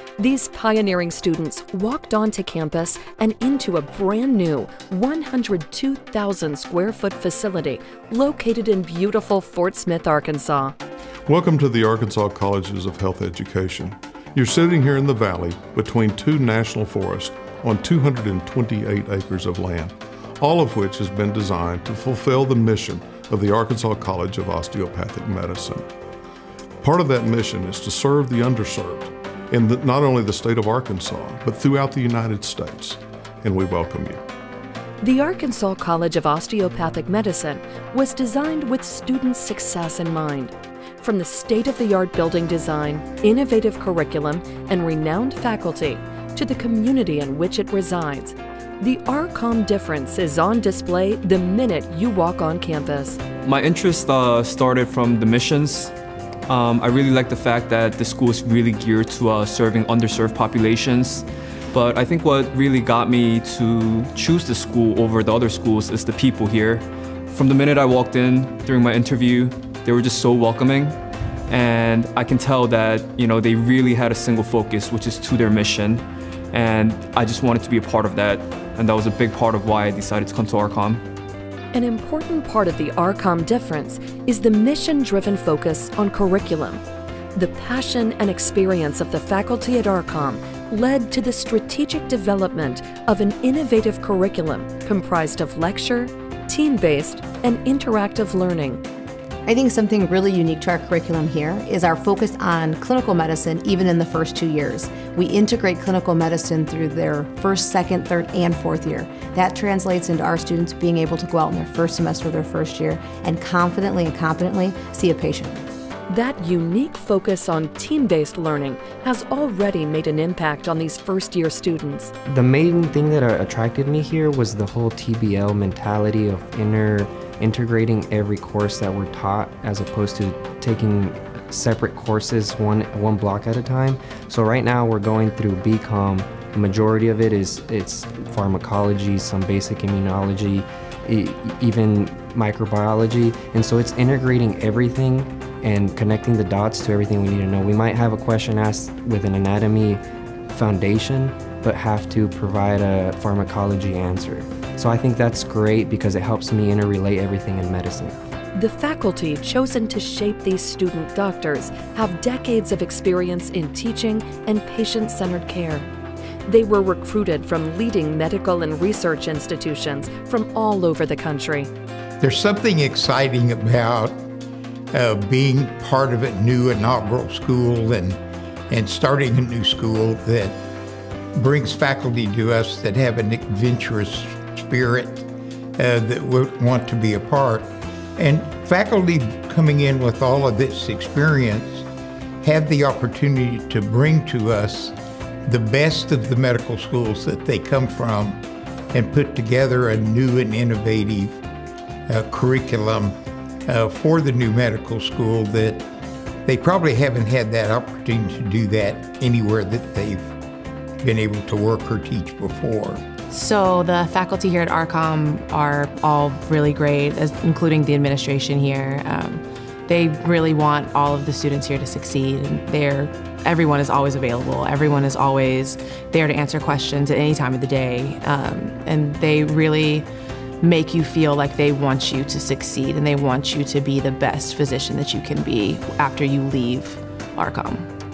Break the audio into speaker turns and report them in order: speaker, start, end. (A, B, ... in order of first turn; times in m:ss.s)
0:00.2-0:10.7 A
0:11.3-0:25.9 B
0:26.8-0:34.2 B
0:35.0-0:53.2 A
0:53.4-0:55.9 C
0:56.5-1:11.0 C
1:11.5-1:21.0 C
1:21.7-1:26.8 A
1:27.4-1:38.8 A
1:39.5-1:55.6 D
1:56.1-2:02.1 A
2:02.3-2:38.2 E
2:38.6-2:45.9 A
2:46.5-2:51.7 A
2:52.2-2:54.2 F
2:54.9-2:58.2 F
2:58.7-3:00.6 F
3:01.4-3:11.9 F
3:12.4-3:15.0 F
3:15.5-3:18.4 F
3:18.9-3:21.4 F
3:22.1-3:23.2 F
3:23.7-3:25.9 F
3:26.5-3:30.3 F
3:31.0-3:33.0 F
3:33.3-3:50.1 G
3:50.6-3:57.9 G